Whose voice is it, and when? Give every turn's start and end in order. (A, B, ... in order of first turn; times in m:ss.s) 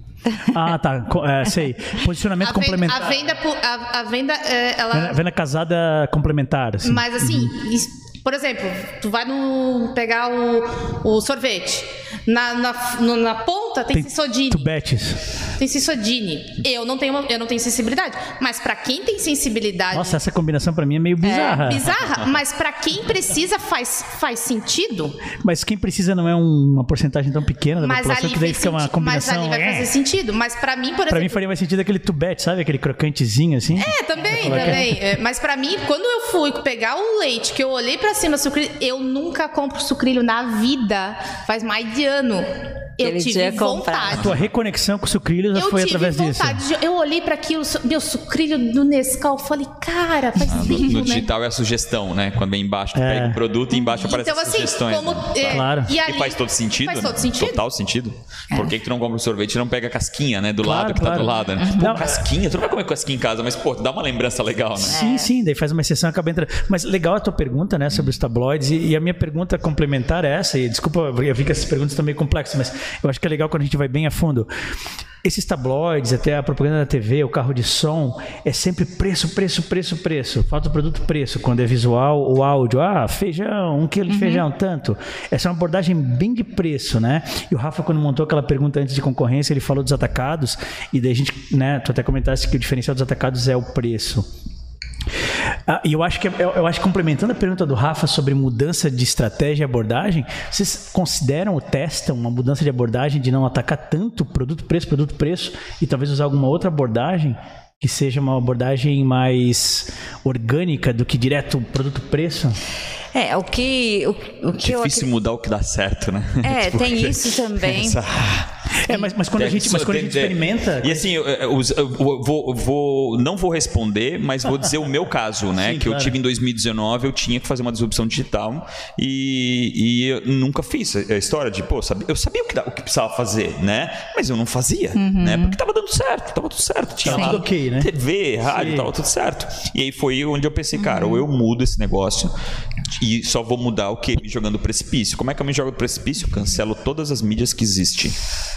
0:00.5-0:03.1 A
0:02.4-0:05.2 B
0:04.9-0:07.5 A
0:06.8-0:14.7 B
0:13.9-0:15.3 A
0:15.6-0:20.2 B
0:19.9-0:21.9 A
0:21.2-0:25.2 B
0:25.4-0:29.9 A
0:27.8-0:31.4 B
0:31.1-0:35.0 A
0:33.8-0:44.3 B
0:34.4-0:34.8 C
0:43.0-0:44.2 C
0:44.1-0:44.5 D
0:44.1-0:46.6 A
0:45.5-0:51.3 B
0:50.4-1:05.0 D
0:53.0-0:53.4 A
0:53.8-0:57.6 B
0:55.5-0:55.9 A
1:00.6-1:02.2 A
1:01.6-1:02.0 C
1:04.8-1:14.5 A
1:04.9-1:05.3 C
1:15.2-1:34.3 A
1:24.1-1:24.4 C
1:35.7-1:52.6 A
1:53.1-1:55.1 C
1:54.6-1:58.5 D
1:56.4-1:58.0 C
1:58.8-2:01.1 A
1:59.4-2:22.3 D
2:05.6-2:06.2 A
2:15.0-2:15.6 C
2:17.0-2:17.9 A
2:17.1-2:17.4 C
2:18.4-2:18.9 A
2:20.8-2:21.2 C
2:22.9-2:28.2 D